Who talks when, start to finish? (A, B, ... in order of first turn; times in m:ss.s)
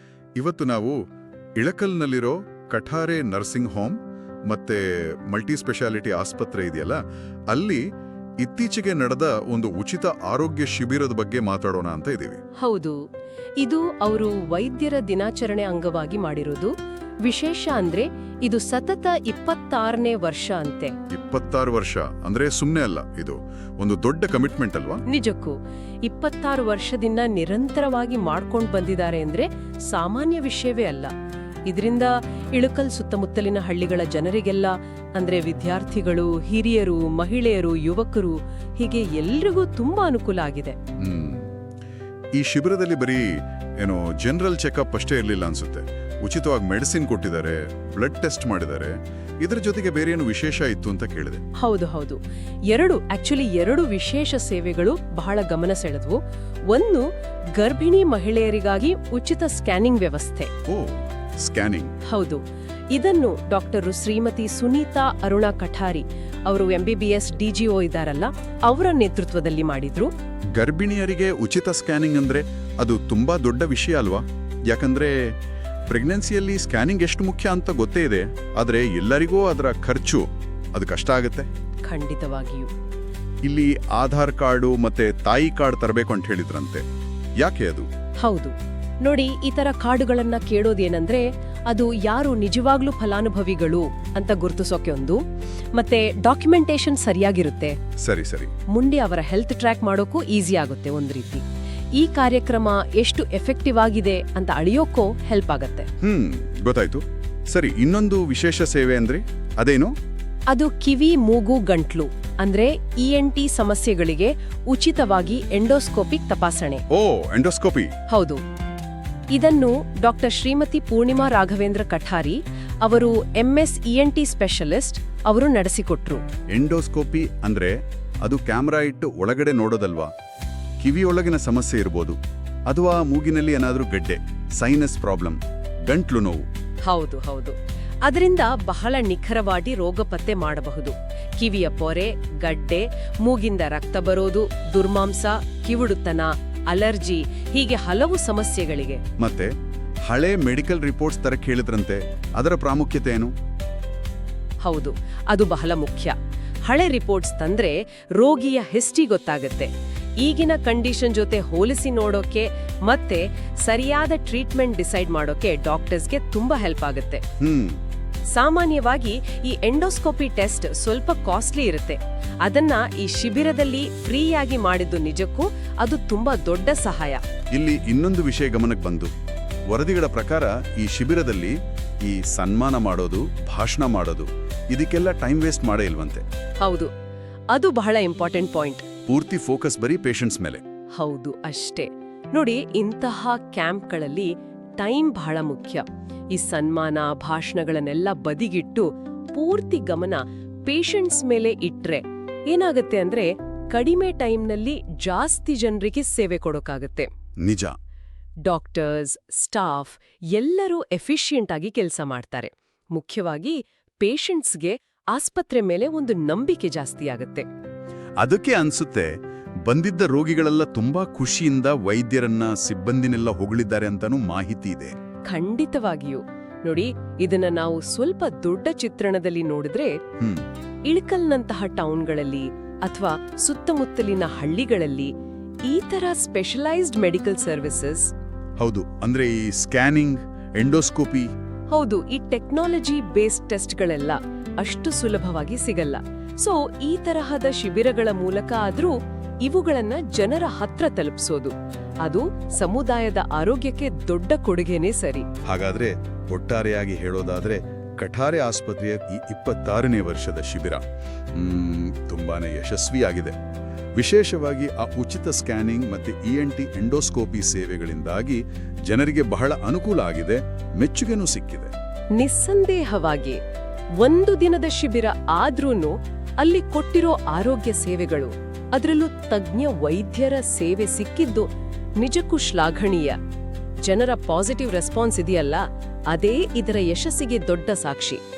0:00.4-0:01.0 A
0:01.6-0:07.0 A
0:07.5-0:07.8 A
0:08.4-0:12.4 A
0:12.6-0:13.0 B
0:13.6-0:21.0 B
0:21.1-0:25.0 A
0:25.1-0:31.1 B
0:31.7-0:40.8 B
0:41.0-0:41.5 A
0:42.3-0:51.4 A
0:51.6-1:00.5 B
1:00.7-1:02.0 A
1:02.0-1:10.1 B
1:10.5-1:15.3 A
1:15.9-1:21.5 A
1:21.8-1:22.7 B
1:23.4-1:26.8 A
1:27.4-1:27.9 A
1:28.2-1:35.2 B
1:35.7-1:37.8 B
1:38.0-1:38.5 A
1:38.7-1:41.4 B
1:42.0-1:45.9 B
1:46.0-1:49.9 A
1:50.5-1:56.8 B
1:56.9-1:58.0 A
1:58.1-1:58.4 B
1:59.3-2:06.2 B
2:06.5-2:10.1 A
2:10.8-2:16.5 A
2:16.8-2:29.0 B
2:29.2-2:29.5 A
2:30.1-2:33.3 A
2:34.6-2:47.2 B
2:47.4-2:47.8 A
2:48.3-2:57.2 B
2:57.5-2:59.1 A
2:59.7-3:06.2 A
3:06.6-3:06.9 B
3:07.5-3:08.9 B
3:09.1-3:10.6 A
3:11.0-3:27.1 B
3:27.4-3:27.8 A
3:28.4-3:37.5 B
3:38.2-3:45.0 A
3:45.3-3:50.0 B
3:50.2-3:50.5 A
3:50.9-3:55.1 B
3:55.7-3:58.1 B
3:58.6-4:01.3 A
4:01.7-4:15.3 B
4:15.4-4:23.4 A
4:24.0-4:31.7 A
4:32.2-4:33.4 B
4:34.0-4:41.5 B
4:42.0-4:43.2 B
4:43.8-4:48.2 B